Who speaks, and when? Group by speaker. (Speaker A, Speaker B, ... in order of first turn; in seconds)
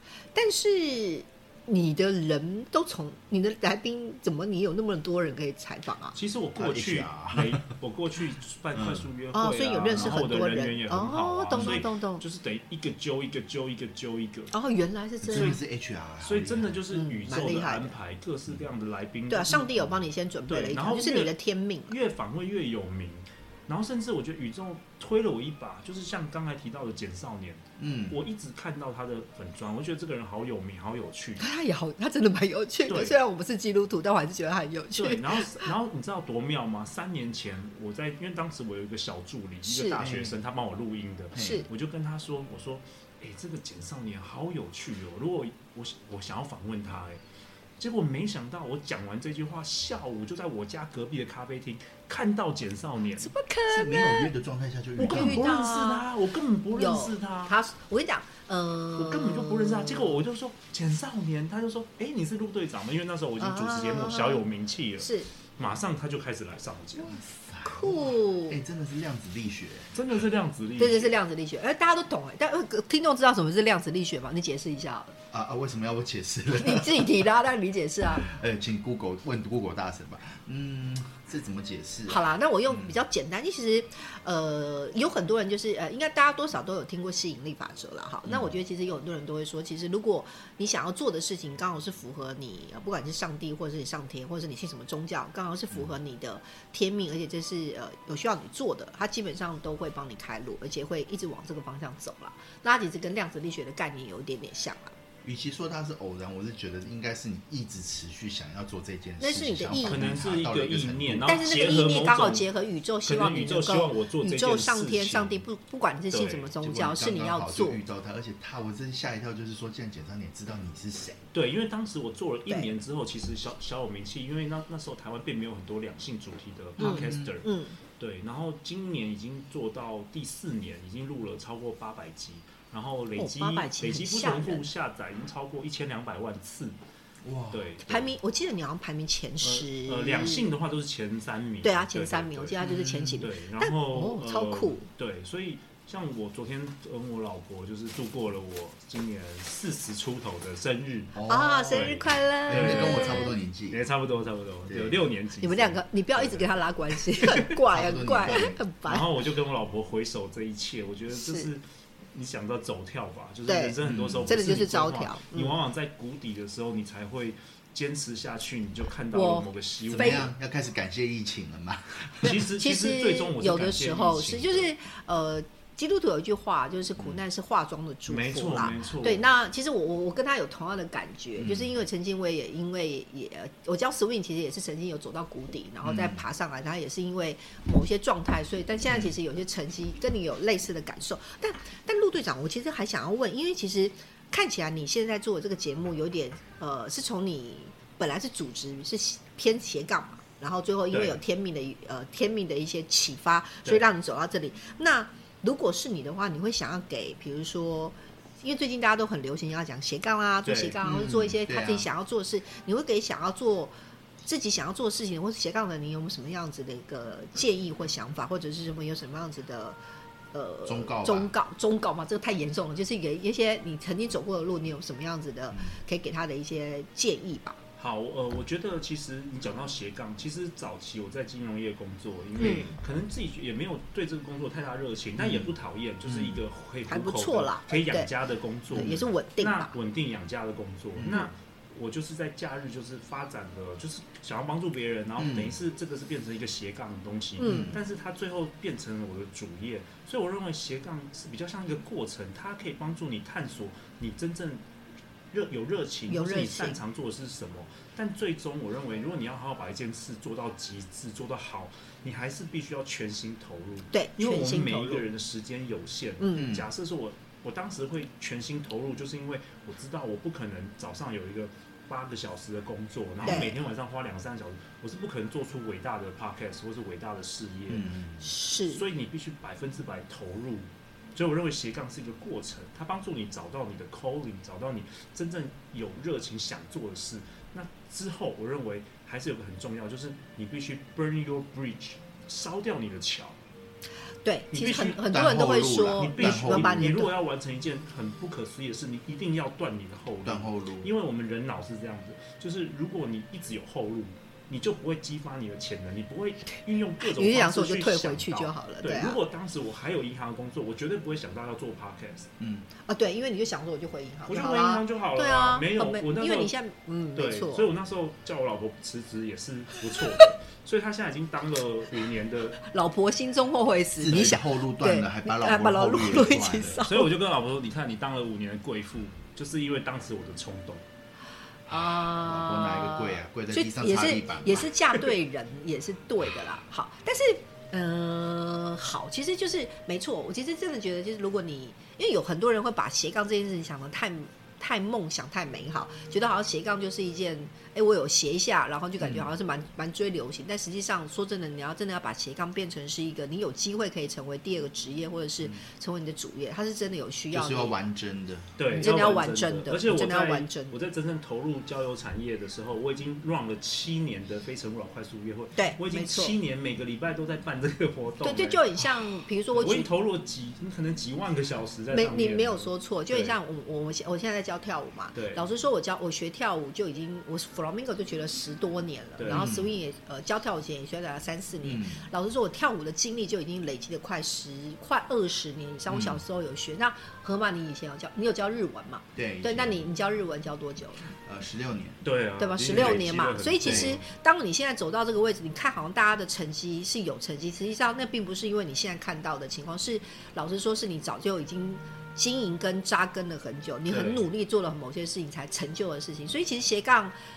Speaker A: 0.3-6.2, 9.3-12.2, 14.5-15.6, 16.9-18.0, 19.3-22.0, 31.4-35.7, 39.6-40.1, 41.4-41.7, 53.2-54.3, 55.0-56.1, 56.7-60.2, 63.4-64.5, 65.0-65.3, 67.6-68.6, 70.8-75.2, 76.5-78.3, 82.1-105.0, 109.2-110.1, 111.3-117.8, 126.8-127.8, 133.2-134.7, 137.9-140.5, 141.6-144.9, 151.3-153.4, 155.4-159.1, 161.1-161.5, 163.5-163.8, 164.3-165.6, 169.1-170.3, 172.2-213.7, 214.2-219.8, 220.3-227.6, 232.4-232.8, 236.9-238.1, 238.7-239.7, 247.4-247.8, 256.1-256.8, 263.9-265.1, 266.2-266.5, 273.2-273.6, 278.2-278.8, 294.2-297.1, 307.0-309.2, 312.9-317.7, 319.9-320.3, 322.6-327.1, 331.7-357.8, 358.7-360.8, 365.6-366.4, 368.2-369.9, 371.9-391.1, 392.4-407.2
Speaker B: 6.1-14.5, 15.3-15.6, 16.2-19.9, 20.5-21.3, 21.9-31.4, 32.9-33.2, 35.0-47.2, 47.8-53.3, 55.0-57.6, 59.0-67.2, 69.9-71.1, 109.8-112.5, 113.0-115.5, 116.1-116.5, 121.3-136.8, 137.5-138.1, 139.4-142.6, 143.2-151.2, 151.7-156.5, 158.9-161.6, 162.1-170.3, 172.2-174.7, 178.1-179.3, 200.9-201.2, 210.4-210.8, 227.8-254.6, 255.3-277.9, 278.7-293.4, 294.5-295.1, 295.9-312.3, 314.3-316.5, 317.1-322.6, 326.9-330.9, 358.6-368.9, 369.5-373.4, 375.1-375.4, 379.2-379.6, 392.0-394.1, 403.9-404.3
Speaker C: 6.5-7.6, 8.8-9.1, 9.9-10.2, 11.5-11.8, 15.2-16.8, 27.8-28.2, 40.0-40.4, 41.3-41.7, 53.7-55.5, 67.0-70.2, 75.3-77.3, 78.2-83.0, 88.3-88.5, 105.2-111.4, 116.6-121.2, 126.8-127.3, 137.2-137.8, 142.6-143.2, 151.1-153.8, 154.7-155.0, 157.7-158.6, 163.8-164.5, 169.9-172.4, 181.4-181.8, 185.8-186.2, 188.9-189.1, 210.8-211.9, 220.7-221.3, 225.5-225.8, 235.2-236.4, 238.7-239.0, 241.0-241.3, 245.2-245.6, 247.4-247.8, 266.4-266.7, 273.2-273.5, 277.7-278.3, 295.1-296.9, 300.2-300.9, 312.4-312.7, 324.0-326.8, 331.7-334.7, 349.0-349.3, 357.3-358.6, 379.3-379.7, 381.6-382.0, 385.9-386.2, 389.1-389.8, 391.1-392.0, 392.7-393.1, 393.6-394.0